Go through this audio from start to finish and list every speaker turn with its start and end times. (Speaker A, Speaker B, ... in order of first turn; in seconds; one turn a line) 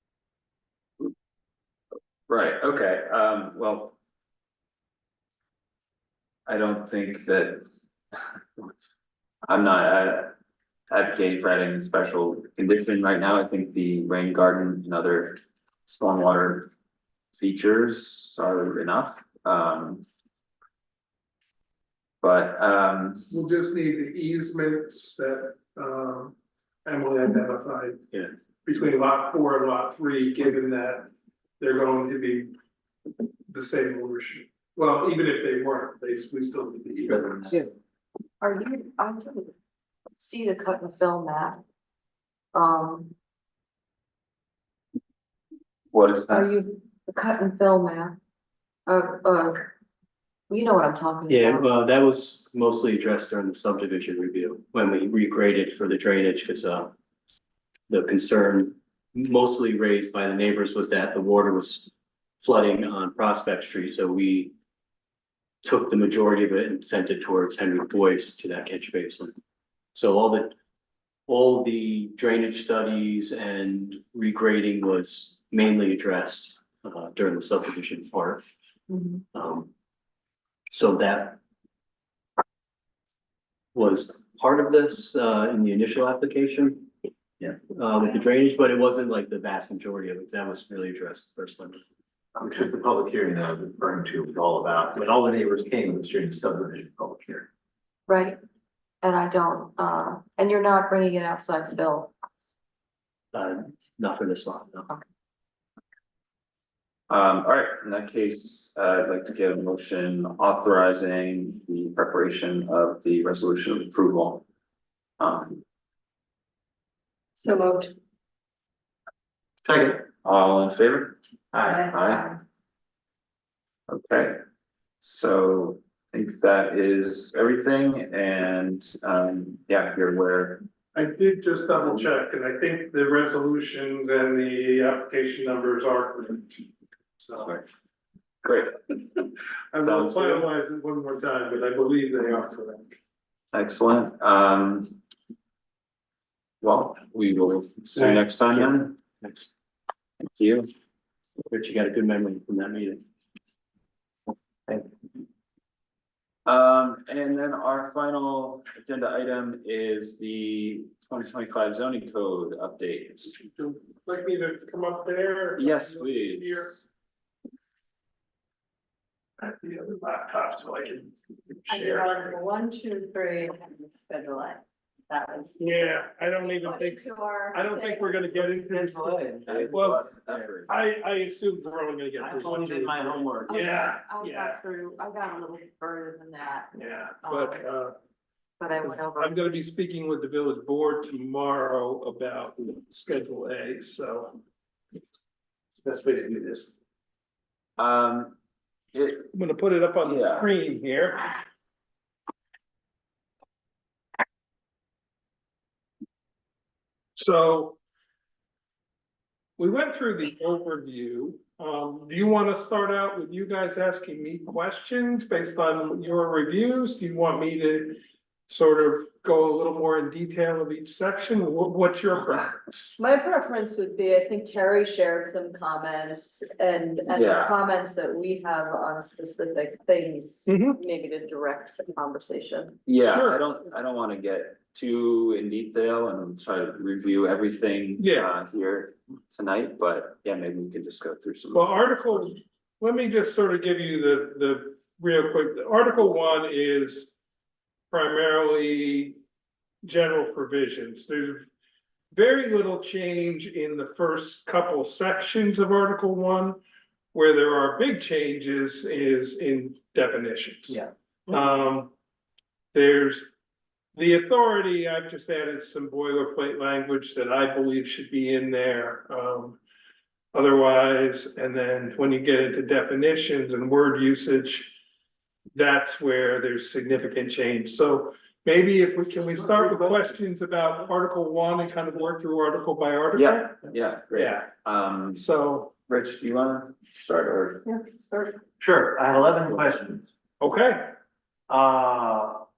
Speaker A: 2.3-3.9
Speaker A: 6.5-7.6
Speaker A: 9.5-10.3
Speaker A: 10.9-16.7
Speaker A: 17.3-20.1
Speaker A: 22.2-23.3
Speaker B: 23.3-28.0
Speaker B: 28.6-31.1
Speaker B: 31.6-32.5
Speaker B: 33.5-37.5
Speaker C: 38.4-39.5
Speaker C: 40.1-41.6
Speaker C: 42.5-43.1
Speaker A: 45.9-46.5
Speaker C: 46.3-48.2
Speaker C: 48.9-49.7
Speaker C: 50.5-51.7
Speaker D: 51.3-56.9
Speaker D: 57.9-64.5
Speaker D: 65.6-69.3
Speaker D: 69.9-70.5
Speaker D: 71.3-78.4
Speaker C: 78.9-79.2
Speaker D: 79.3-79.7
Speaker D: 80.7-81.4
Speaker D: 83.7-86.9
Speaker D: 87.4-91.8
Speaker E: 92.3-97.5
Speaker C: 98.1-98.4
Speaker C: 99.0-102.1
Speaker D: 103.3-104.8
Speaker A: 107.1-114.4
Speaker A: 115.2-115.6
Speaker F: 117.4-117.9
Speaker E: 119.6-120.0
Speaker A: 120.2-121.2
Speaker E: 121.5-121.8
Speaker F: 121.6-122.4
Speaker A: 121.9-122.2
Speaker A: 123.9-124.4
Speaker A: 125.0-130.6
Speaker B: 130.9-136.6
Speaker B: 137.2-137.6
Speaker A: 138.4-138.7
Speaker B: 139.7-142.9
Speaker A: 139.8-140.5
Speaker A: 143.5-145.0
Speaker A: 146.6-148.9
Speaker D: 148.0-149.5
Speaker A: 150.2-150.7
Speaker D: 151.5-153.0
Speaker A: 156.4-163.3
Speaker B: 163.3-166.8
Speaker A: 165.6-166.8
Speaker B: 169.4-172.3
Speaker F: 171.7-175.9
Speaker B: 175.6-177.0
Speaker F: 176.4-178.4
Speaker B: 177.5-180.1
Speaker E: 178.6-180.5
Speaker A: 179.4-180.7
Speaker B: 180.7-184.6
Speaker E: 182.2-183.6
Speaker C: 183.5-187.7
Speaker B: 186.7-187.9
Speaker C: 188.6-189.5
Speaker B: 188.8-194.4
Speaker E: 195.8-196.7
Speaker A: 197.8-198.3
Speaker A: 198.9-199.3
Speaker B: 199.3-201.4
Speaker A: 200.0-200.5
Speaker B: 207.2-207.8
Speaker B: 209.6-222.9
Speaker F: 223.0-232.8
Speaker A: 227.1-227.5
Speaker B: 230.5-230.8
Speaker A: 232.8-242.3
Speaker B: 233.0-233.4
Speaker B: 238.0-238.3
Speaker B: 241.5-247.1
Speaker B: 247.9-249.2
Speaker B: 249.8-251.5
Speaker B: 252.1-256.6
Speaker B: 257.1-261.9
Speaker B: 262.7-263.3
Speaker B: 263.9-269.6
Speaker B: 270.3-274.7
Speaker B: 275.5-284.5
Speaker E: 279.5-279.9
Speaker A: 283.1-285.2
Speaker B: 285.1-285.7
Speaker A: 285.9-287.6
Speaker F: 287.6-288.4
Speaker E: 288.6-290.1
Speaker B: 290.4-290.9
Speaker E: 291.5-292.4